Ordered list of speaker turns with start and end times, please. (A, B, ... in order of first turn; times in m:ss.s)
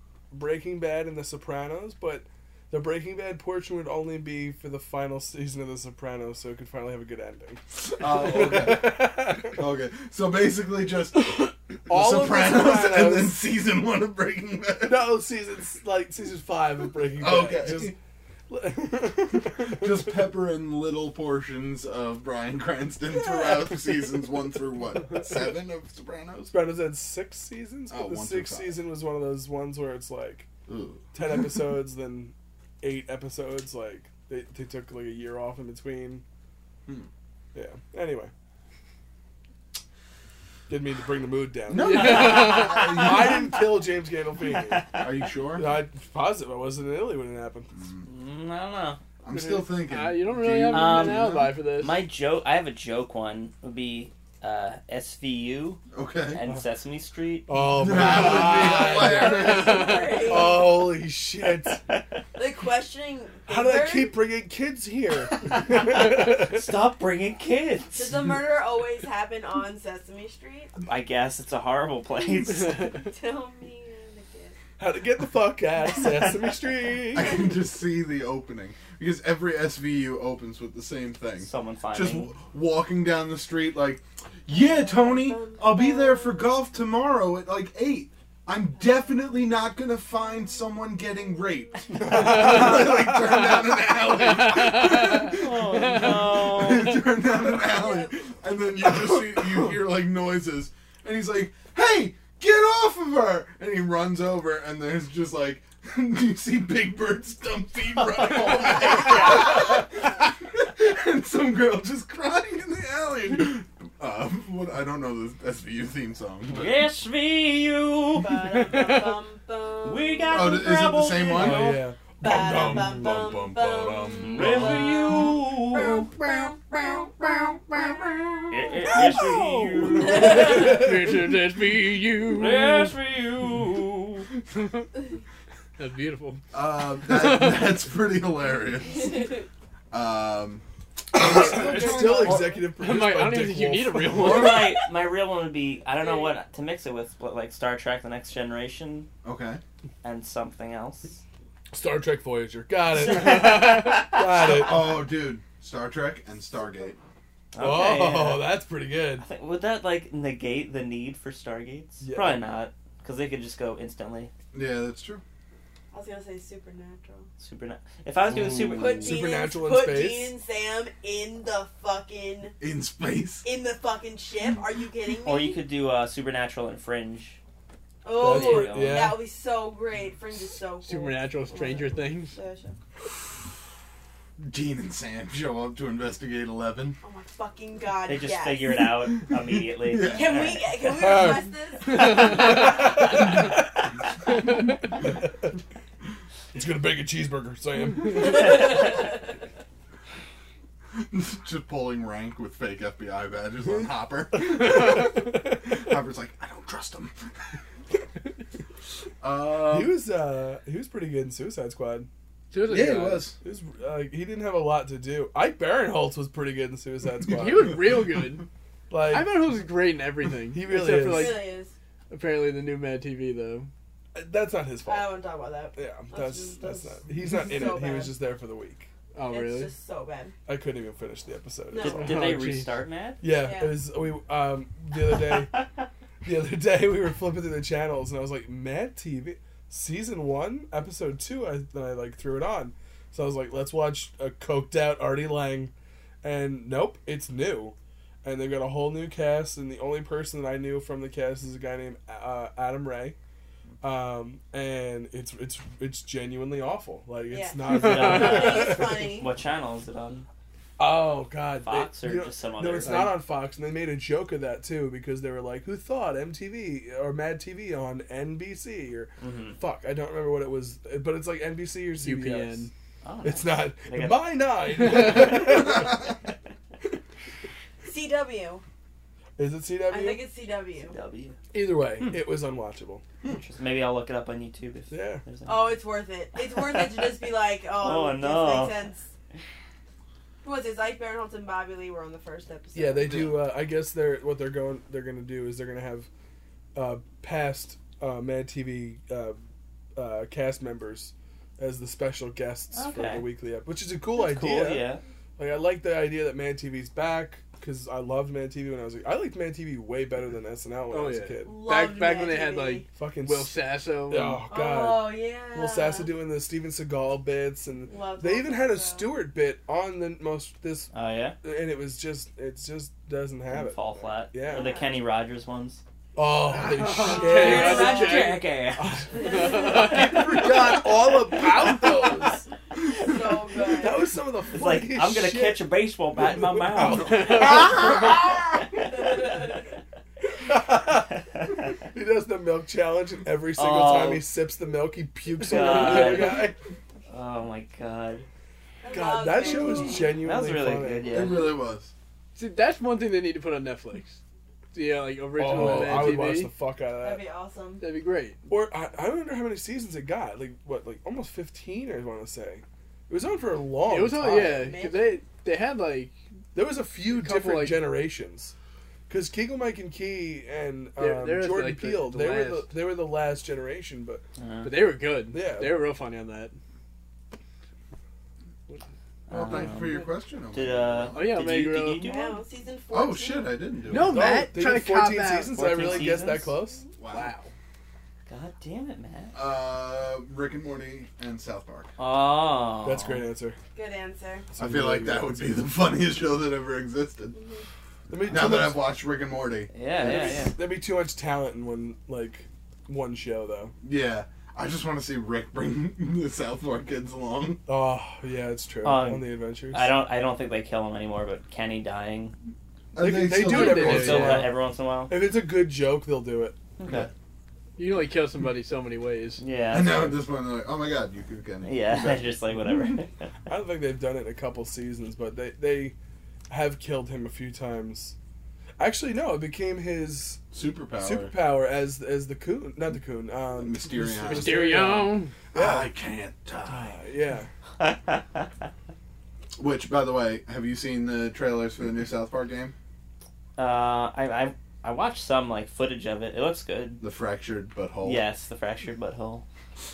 0:00.3-0:09.6 A
0:07.8-0:15.1 B
0:11.9-0:13.4 A
0:14.8-0:17.9 A
0:17.2-0:17.9 B
0:18.5-0:20.0 A
0:19.6-0:26.6 B
0:26.5-0:30.5 A
0:27.9-0:28.8 B
0:30.7-0:31.0 B
0:31.1-0:36.2 A
0:37.6-0:38.3 A
0:40.7-0:44.9 A
0:41.7-0:43.6 B
0:41.8-0:42.7 C
0:42.3-0:42.9 D
0:44.6-0:45.1 D
0:45.0-0:45.7 B
0:45.6-0:47.7 A
0:47.8-0:48.0 B
0:48.0-0:49.0 D
0:49.2-0:51.6 B
0:49.3-0:52.0 C
0:50.7-0:58.0 D
0:55.9-0:56.4 B
0:57.5-0:59.6 A
0:57.8-1:00.2 B
0:58.4-1:00.8 E
0:59.4-1:00.2 C
1:00.2-1:01.8 A
1:01.8-1:02.1 D
1:02.4-1:04.1 E
1:03.5-1:06.7 A
1:05.4-1:08.1 D
1:07.9-1:10.7 E
1:10.8-1:12.9 D
1:12.9-1:14.6 E
1:14.8-1:17.4 A
1:16.0-1:16.3 D
1:17.1-1:56.8 B
1:21.4-1:22.3 D
1:24.5-1:26.5 E
1:32.0-1:33.5 A
1:34.3-1:36.1 C
1:35.0-1:37.1 D
1:37.5-1:38.3 E
1:56.5-1:58.5 D
1:58.1-2:00.7 E
1:58.7-1:59.2 C
1:59.8-2:01.7 D
2:00.3-2:04.9 B
2:01.3-2:02.9 A
2:02.2-2:08.1 E
2:04.2-2:06.1 D
2:08.5-2:10.9 D
2:08.9-2:09.4 E
2:10.0-2:13.0 C
2:10.0-2:10.6 E
2:10.2-2:10.7 A
2:12.3-2:14.3 D
2:14.5-2:14.9 C
2:15.8-2:16.4 C
2:16.5-2:19.3 B
2:17.0-2:17.8 C
2:19.0-2:19.4 E
2:19.9-2:22.6 B
2:21.2-2:24.7 A
2:21.2-2:22.6 E
2:22.8-2:24.7 C
2:24.1-2:29.1 D
2:26.0-2:26.3 E
2:29.2-2:29.6 B
2:30.0-2:31.2 D
2:31.7-2:34.9 A
2:33.0-2:34.6 D
2:34.4-2:37.0 B
2:37.5-2:38.5 D
2:37.6-2:39.3 A
2:39.2-2:44.3 D
2:42.0-2:42.4 A
2:44.5-2:45.2 B
2:45.9-2:47.3 E
2:47.4-2:49.2 D
2:48.3-2:48.8 B
2:48.7-2:52.6 E
2:49.0-2:50.3 A
2:52.6-2:53.4 B
2:53.4-2:55.6 E
2:55.2-2:57.4 D
2:58.0-3:02.8 E
2:58.2-2:59.2 A
2:58.2-2:59.2 D
3:00.8-3:02.4 C
3:04.4-3:07.0 B
3:07.0-3:08.7 E
3:08.1-3:10.8 D
3:09.0-3:10.5 B
3:10.0-3:12.7 E
3:11.0-3:11.4 A
3:12.0-3:12.5 C
3:12.1-3:13.3 A
3:16.5-3:18.8 A
3:18.2-3:19.1 E
3:20.9-3:27.3 B
3:24.6-3:25.6 A
3:29.2-3:30.0 B
3:29.6-3:32.1 A
3:32.5-3:33.3 C
3:32.6-3:33.4 B
3:33.4-3:37.9 A
3:37.3-3:38.5 C
3:38.9-3:39.4 A
3:39.1-3:41.5 C
3:40.5-3:41.4 A
3:41.0-3:41.7 E
3:42.1-3:43.7 C
3:44.2-3:45.2 A
3:44.8-3:48.2 E
3:45.8-3:48.9 A
3:49.1-3:49.7 C
3:49.3-3:50.3 E
3:50.5-3:52.3 A
3:51.7-3:52.3 E
3:51.8-3:53.2 D
3:51.9-3:52.8 C
3:53.2-3:55.6 A
3:53.3-3:53.8 E
3:56.2-4:05.7 A
4:06.2-4:13.2 A
4:13.8-4:19.0 A
4:17.3-4:19.3 E
4:17.6-4:20.3 D
4:20.8-4:32.7 A
4:21.6-4:23.2 D
4:29.2-4:29.6 D
4:32.0-4:32.7 C
4:33.0-4:34.4 D
4:33.2-4:36.0 A
4:34.9-4:35.7 D
4:37.8-4:38.6 E
4:39.4-4:40.2 A
4:39.9-4:41.0 E
4:40.9-4:41.4 D
4:41.5-4:43.0 A
4:43.2-4:45.8 D
4:44.9-4:45.2 A
4:45.5-4:49.1 E
4:46.6-4:47.1 D
4:47.8-4:48.8 D
4:50.4-4:53.3 E
4:52.8-4:56.1 A
4:56.8-4:59.4 A
5:00.0-5:11.6 A
5:02.7-5:03.2 D
5:04.1-5:05.0 D
5:10.9-5:14.4 C
5:11.4-5:12.8 E
5:12.9-5:20.9 A
5:14.5-5:16.1 E
5:17.9-5:19.1 E
5:20.9-5:21.4 D
5:21.4-5:24.8 A
5:23.5-5:25.8 D
5:24.4-5:25.0 E
5:26.2-5:28.1 A
5:26.6-5:28.5 C
5:27.0-5:28.3 E
5:27.1-5:29.0 D
5:28.8-5:32.5 A
5:29.2-5:30.2 E
5:29.2-5:30.4 C
5:32.8-5:34.1 E
5:33.7-5:35.7 A
5:34.5-5:39.4 D
5:36.2-5:38.0 A
5:36.9-5:37.8 C
5:39.0-5:39.5 E
5:40.3-5:46.6 A
5:43.5-5:44.3 D
5:45.4-5:46.5 D
5:45.5-5:46.5 C
5:47.1-5:48.2 D
5:48.8-5:50.2 E
5:48.9-5:51.2 A
5:49.4-5:51.5 D
5:51.1-5:51.9 B
5:52.4-5:54.2 C
5:54.7-5:56.5 C
5:55.4-5:57.2 A
5:55.6-5:55.9 B
5:57.0-5:57.9 E
5:57.8-5:58.4 C
5:58.5-6:04.7 A
6:03.8-6:06.1 C
6:04.3-6:05.2 E
6:06.5-6:08.5 A
6:07.0-6:08.0 C
6:09.1-6:14.2 A
6:11.0-6:12.7 C
6:14.4-6:14.8 D
6:14.6-6:16.5 C
6:15.3-6:15.8 A
6:19.3-6:22.4 D
6:19.3-6:21.2 B
6:21.1-6:22.3 C
6:22.0-6:23.6 E
6:22.9-6:24.4 B
6:23.9-6:25.9 C
6:23.9-6:26.8 A
6:25.5-6:26.5 D
6:27.0-6:27.3 B
6:27.1-6:27.5 C
6:28.3-6:29.4 D
6:29.3-6:31.9 B
6:32.0-6:33.2 D
6:32.8-6:33.6 A
6:33.7-6:34.5 E
6:34.5-6:35.7 A
6:34.6-6:37.4 B
6:37.3-6:37.6 E
6:38.1-6:38.9 A
6:38.2-6:40.4 B
6:39.7-6:40.6 D
6:40.0-6:43.7 A
6:43.8-6:47.6 B
6:47.7-6:49.9 A
6:48.8-6:52.4 D
6:52.9-6:54.5 B
6:53.0-6:56.6 A
6:53.4-6:55.2 D
6:53.5-6:54.4 C
6:56.8-6:57.1 D
6:57.8-6:59.4 C
6:59.4-7:00.2 D
6:59.7-7:02.4 B
7:01.6-7:03.3 D
7:03.5-7:06.0 A
7:06.5-7:08.2 A
7:08.8-7:10.4 A
7:10.5-7:11.4 B
7:11.0-7:15.9 A
7:13.6-7:14.9 B
7:14.2-7:15.3 C
7:15.5-7:17.0 B
7:16.6-7:17.5 A
7:17.8-7:18.5 D
7:19.6-7:22.7 B
7:23.6-7:27.0 D
7:27.0-7:28.2 B
7:28.0-7:29.4 D